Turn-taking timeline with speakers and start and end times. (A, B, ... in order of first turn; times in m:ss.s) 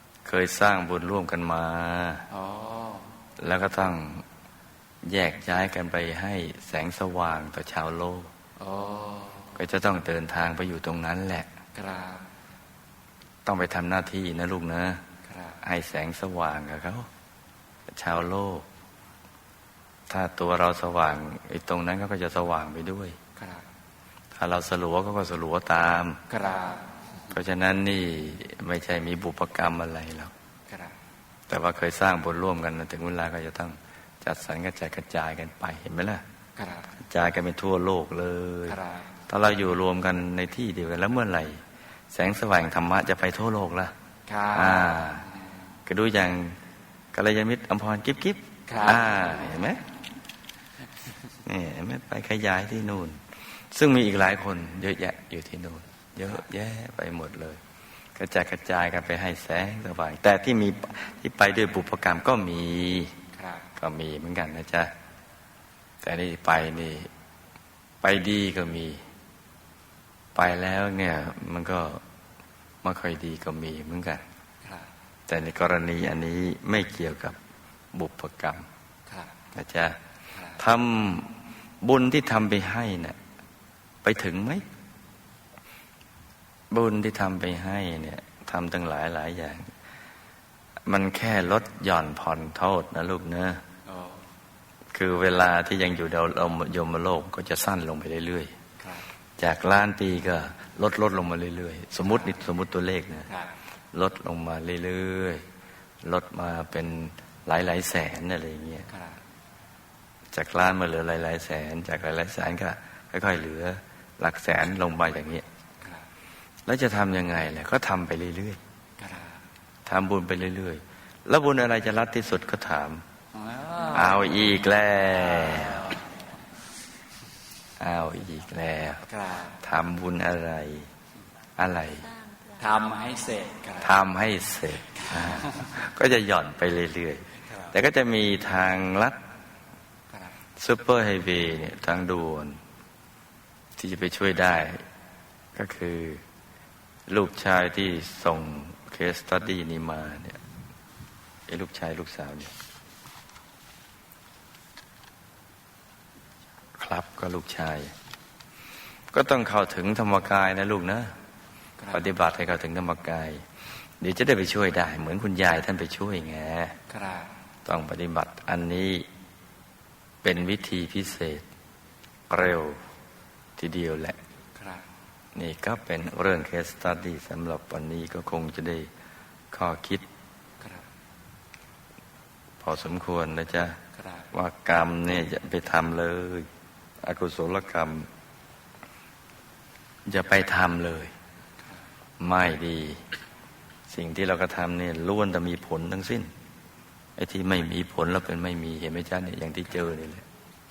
0:00.2-0:02.3 A
0:02.3-0:03.2 B
0:03.4-0:04.2 A
0:05.0-0:08.3 A
0:08.6-0:09.6 B
0:09.6-0:11.5 A
0:11.7-0:12.2 B
0:13.5-0:15.0 A
0:15.3-0:15.6 B
0:15.6-0:17.1 A
0:17.9-0:18.7 A
0:20.1-0:23.2 A
0:23.4-0:23.6 B
0:24.3-0:26.2 A
0:26.3-0:27.0 B
0:27.3-0:30.3 A
0:30.7-0:31.0 B
0:31.5-0:36.2 A
0:36.6-0:36.9 B
0:37.0-0:43.9 A
0:38.7-0:39.0 B
0:44.3-0:45.2 B
0:44.5-0:45.3 A
0:45.9-0:46.6 A
0:47.1-0:49.8 A
0:48.7-0:49.2 B
0:51.4-0:57.6 A
0:58.2-1:03.2 A
1:03.4-1:03.6 B
1:03.8-1:04.9 A
1:06.0-1:07.1 A
1:08.0-1:09.0 A
1:10.4-1:12.0 A
1:12.8-1:14.2 A
1:15.3-1:17.4 A
1:17.9-1:18.7 A
1:19.1-1:19.3 B
1:19.5-1:20.0 A
1:20.3-1:20.6 B
1:20.5-1:23.2 A
1:24.0-1:24.6 A
1:26.7-1:29.7 A
1:30.9-1:33.6 A
1:33.9-1:34.2 B
1:34.9-1:38.5 A
1:38.8-1:39.0 B
1:39.4-1:43.3 A
1:43.9-1:45.5 A
1:46.0-1:48.9 A
1:50.3-1:55.4 A
1:56.7-1:58.6 A
1:59.0-1:59.4 B
1:59.9-2:03.0 A
2:03.3-2:04.4 B
2:03.9-2:06.0 A
2:07.8-2:09.1 A
2:09.1-2:09.6 B
2:09.6-2:10.9 A
2:11.6-2:12.2 A
2:12.4-2:14.0 B
2:13.8-2:19.2 A
2:15.1-2:15.7 B
2:20.6-2:22.6 A
2:23.8-2:24.8 A
2:25.6-2:26.2 A
2:27.1-2:30.4 A
2:31.5-2:32.5 A
2:36.8-2:37.9 A
2:39.1-2:41.1 A
2:41.9-2:43.5 A
2:44.0-2:46.8 A
2:46.9-2:47.3 B
2:47.6-2:49.1 A
2:50.2-2:51.5 A
2:52.3-2:52.8 A
2:53.6-2:54.2 A
2:54.6-2:54.8 B
2:55.4-2:58.9 A
2:59.5-3:00.1 A
3:02.6-3:03.8 A
3:04.3-3:06.5 A
3:07.0-3:08.1 A
3:10.1-3:11.1 A
3:12.2-3:13.1 A
3:13.9-3:16.3 A
3:17.2-3:20.3 A